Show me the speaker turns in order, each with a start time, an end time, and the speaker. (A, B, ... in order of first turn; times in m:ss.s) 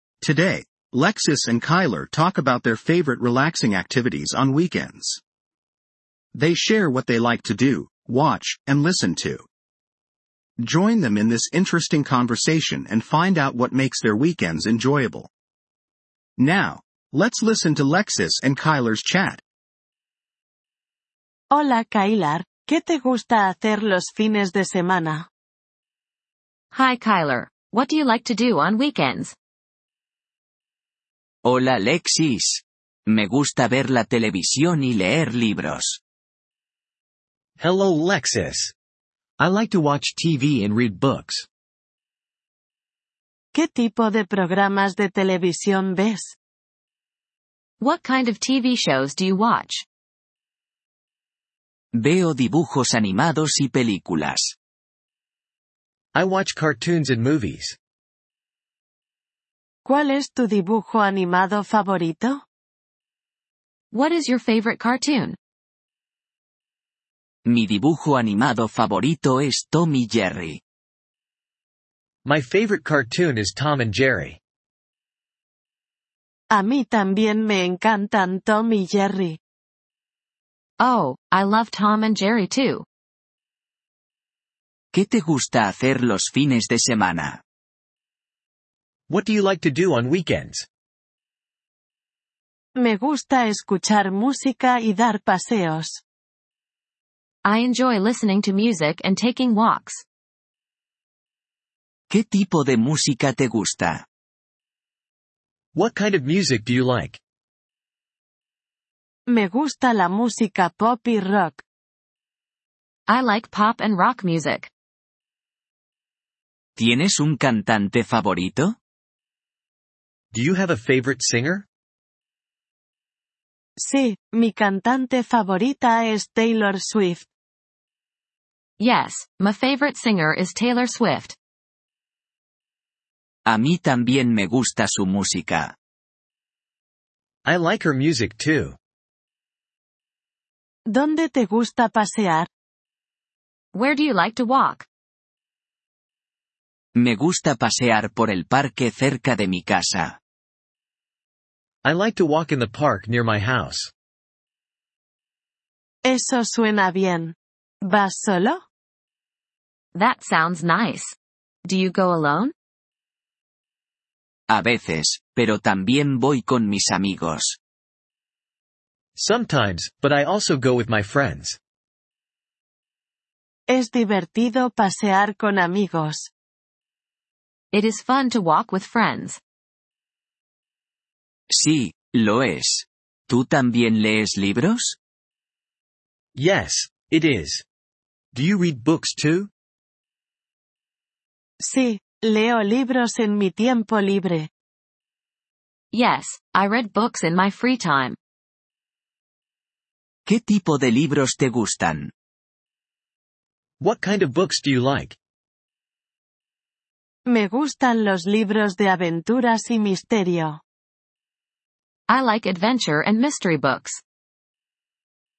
0:00.2-0:05.2 A
0:06.3-0:09.4 A
0:10.6-0:15.3 A
0:16.4-0:19.4 A
0:21.5-0:25.3 B
0:26.7-0:29.3 C
0:31.4-0:36.0 D
0:37.6-0:38.7 E
0:39.4-0:41.4 E
0:43.5-0:46.3 B
0:47.8-0:49.8 C
0:51.9-0:54.5 D
0:56.1-0:57.8 E
0:59.8-1:02.4 B
1:03.9-1:05.4 C
1:07.4-1:10.6 D
1:12.2-1:14.4 E
1:16.5-1:19.4 B
1:20.8-1:22.8 C
1:24.9-1:27.4 D
1:29.1-1:30.7 E
1:32.8-1:36.0 B
1:37.4-1:40.0 C
1:42.1-1:44.0 D
1:45.7-1:47.2 E
1:49.3-1:51.6 B
1:53.1-1:54.7 C
1:56.8-1:58.8 D
2:00.3-2:01.7 E
2:03.8-2:07.3 B
2:08.8-2:11.3 C
2:13.5-2:15.7 D
2:17.4-2:18.8 E
2:20.8-2:22.5 B
2:23.7-2:24.8 C
2:26.9-2:30.2 D
2:31.8-2:33.9 E
2:36.0-2:38.6 B
2:39.9-2:42.5 C
2:44.5-2:47.6 D
2:49.2-2:51.6 E
2:53.7-2:56.3 B
2:57.7-2:59.4 C
3:01.5-3:04.9 D
3:06.3-3:07.6 E
3:08.3-3:09.5 E
3:11.6-3:14.5 B
3:15.9-3:18.2 C
3:20.2-3:22.1 D
3:23.8-3:25.2 E
3:27.2-3:30.6 B
3:32.1-3:34.0 C